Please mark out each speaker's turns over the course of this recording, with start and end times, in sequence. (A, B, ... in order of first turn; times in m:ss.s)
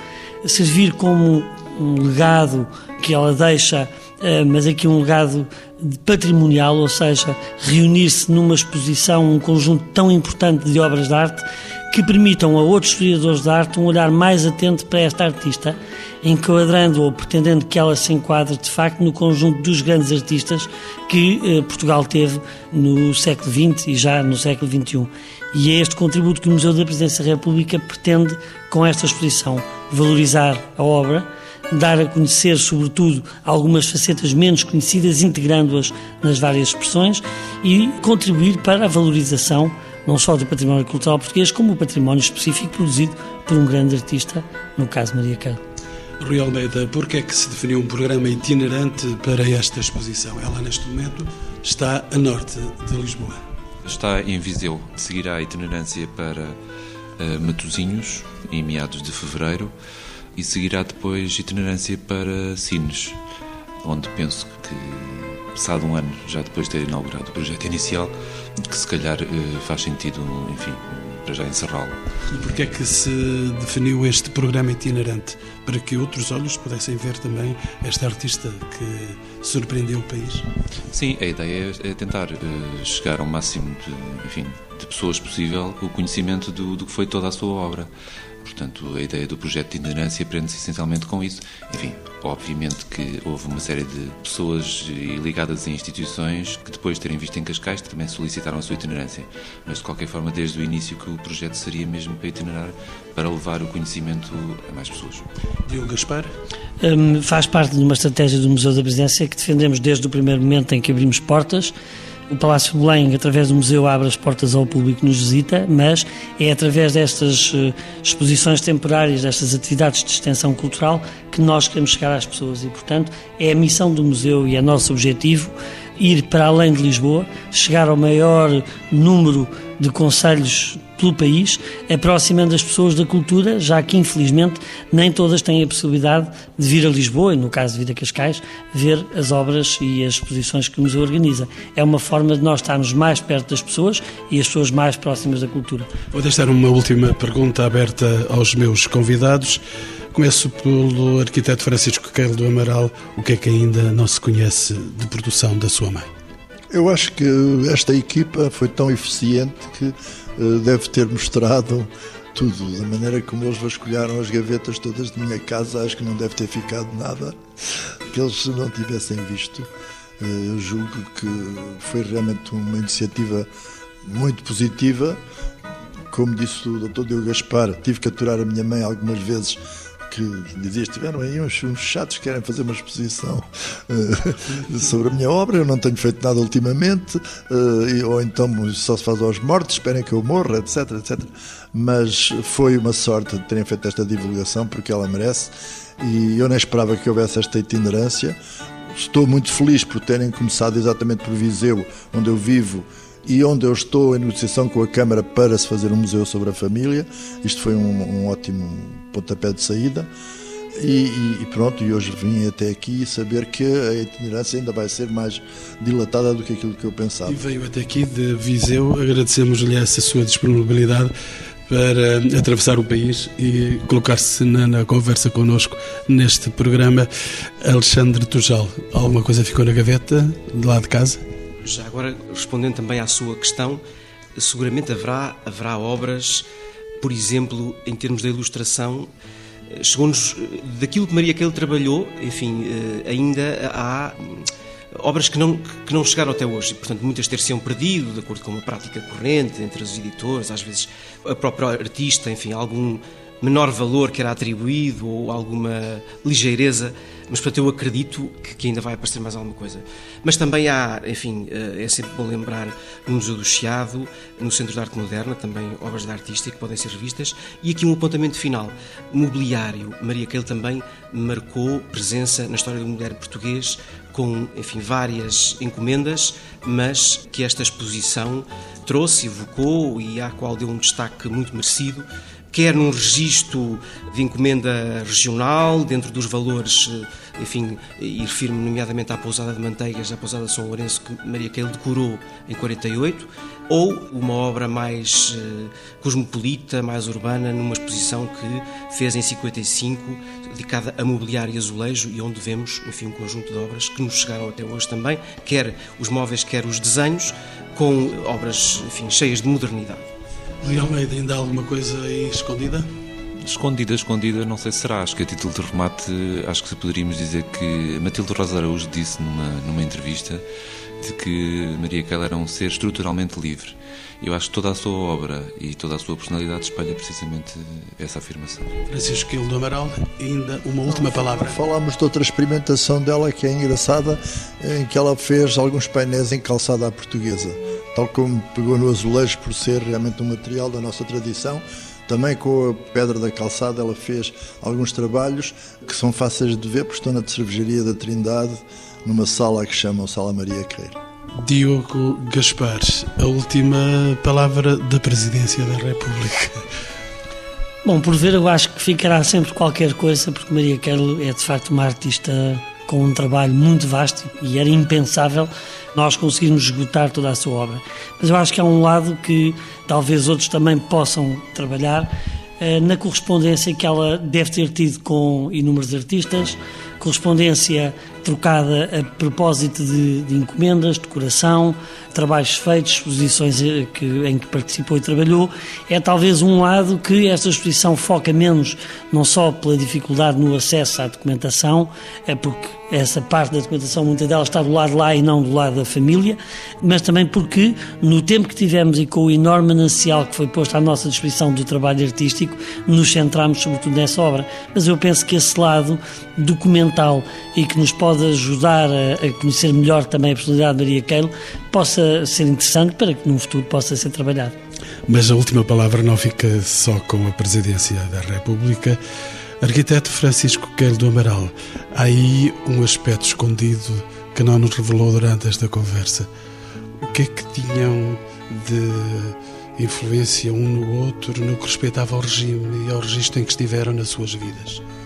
0:00.4-0:45.6 A
0:46.2-0:53.4 B
0:53.8-0:56.6 C
0:57.2-0:59.7 C
1:00.4-1:03.2 C
1:03.8-1:12.0 C
1:12.3-1:20.4 B
1:20.9-1:27.9 C
1:28.4-1:45.2 C
1:45.6-1:46.3 B
1:46.8-1:51.7 A
1:52.3-2:25.9 A
2:26.1-2:29.6 B
2:30.1-2:36.1 B
2:36.7-2:53.5 D
2:54.0-2:55.2 D
2:56.1-3:18.4 D
3:18.9-3:30.1 D
3:30.8-3:37.4 D
3:37.3-3:41.1 B
3:41.7-3:47.1 B
3:47.6-3:51.2 B
3:51.6-3:53.8 E
3:54.4-3:56.4 E
3:57.0-3:59.1 E
3:59.7-5:10.0 E
5:10.6-5:12.9 B
5:13.4-5:20.4 C
5:21.0-5:28.8 C
5:28.9-5:31.6 B
5:30.9-5:51.0 D
5:51.4-5:56.6 B
5:57.8-6:54.6 A
6:55.1-6:59.0 B
6:59.6-7:06.3 B
7:07.0-7:14.8 B